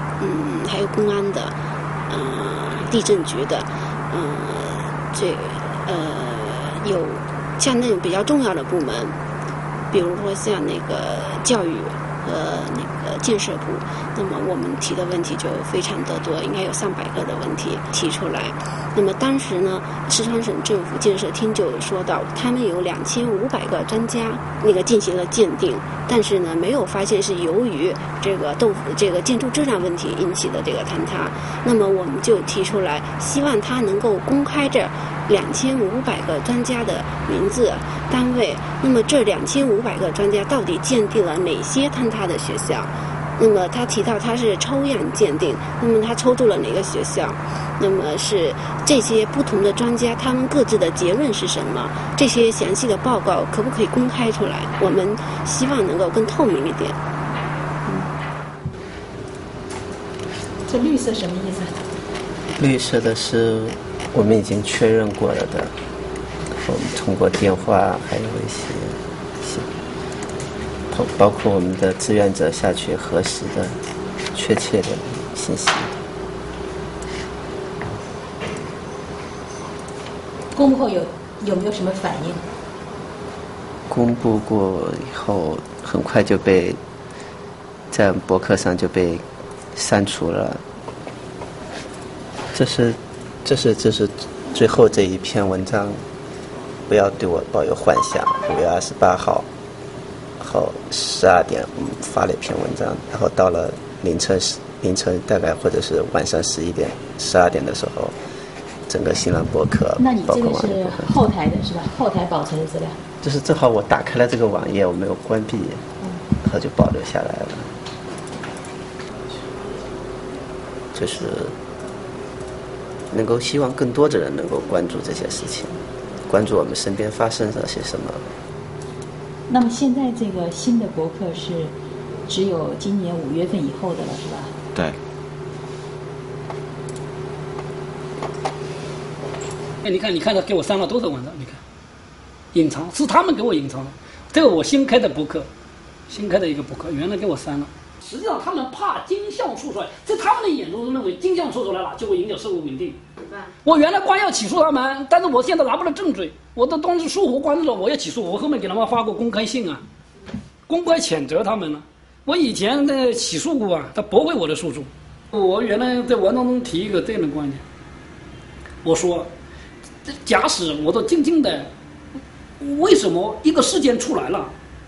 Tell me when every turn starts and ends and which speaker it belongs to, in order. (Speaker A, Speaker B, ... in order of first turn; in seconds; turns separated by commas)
Speaker A: 0.2-1.5, Speaker A: 2.1-9.2, Speaker A: 9.9-57.0, Speaker B: 60.7-61.8, Speaker C: 62.6-65.7, Speaker C: 66.5-69.7, Speaker C: 70.9-73.8, Speaker C: 74.3-75.9, Speaker B: 80.5-82.4, Speaker C: 83.9-86.8, Speaker C: 87.9-89.2, Speaker C: 89.8-90.6, Speaker C: 92.5-96.0, Speaker C: 96.9-99.5, Speaker C: 100.4-108.2, Speaker C: 108.9-111.3, Speaker B: 110.0-113.0, Speaker C: 113.2-115.8, Speaker C: 116.4-117.7, Speaker C: 120.9-121.5, Speaker C: 123.1-128.3, Speaker B: 129.5-131.7, Speaker B: 132.3-134.6, Speaker D: 139.8-141.6, Speaker D: 142.5-145.5, Speaker D: 146.1-153.0, Speaker D: 153.6-159.8, Speaker D: 160.7-167.6, Speaker D: 168.8-169.3, Speaker D: 170.1-171.7, Speaker D: 172.6-174.5